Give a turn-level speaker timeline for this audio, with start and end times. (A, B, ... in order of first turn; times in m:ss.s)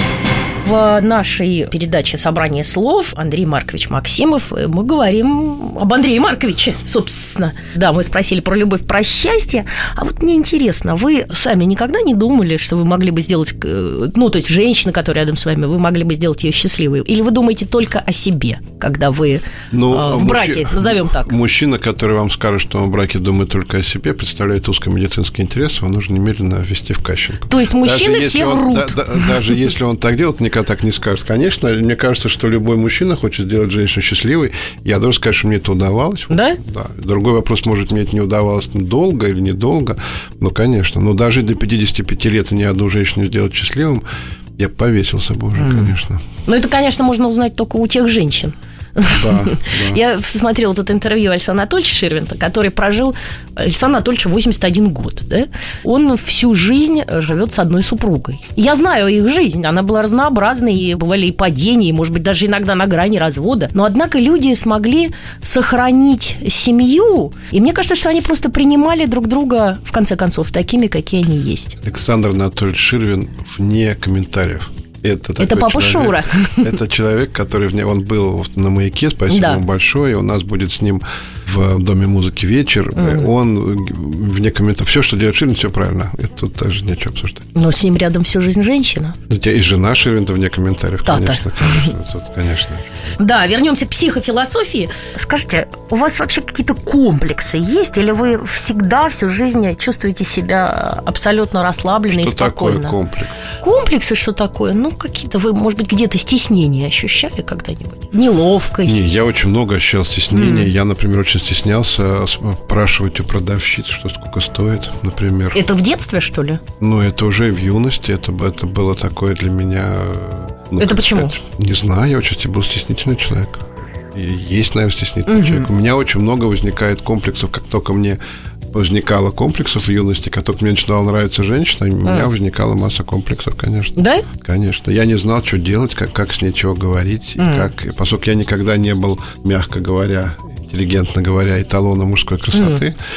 0:00.6-0:21.3 A
0:19.7-0:44.0 B
0:27.5-0:29.6 A
0:36.3-0:36.6 A
0:44.6-0:46.2 B
0:45.6-0:46.0 A
0:46.5-1:11.8 A
0:49.1-0:50.0 B
1:11.8-1:27.5 B
1:15.4-1:16.7 A
1:19.3-1:19.6 A
1:23.0-1:23.3 A
1:27.6-1:29.2 A
1:29.3-1:33.2 B
1:31.1-1:31.9 A
1:33.2-1:43.0 A
1:42.1-1:43.4 B
1:43.6-1:49.2 A
1:48.8-1:55.6 B
1:50.3-1:50.7 A
1:55.5-1:56.6 A
1:56.8-2:08.2 B
2:00.8-2:01.3 A
2:05.3-2:05.7 A
2:08.7-2:23.0 B
2:12.0-2:12.3 A
2:14.0-2:14.3 A
2:17.4-2:17.7 A
2:22.5-2:22.8 A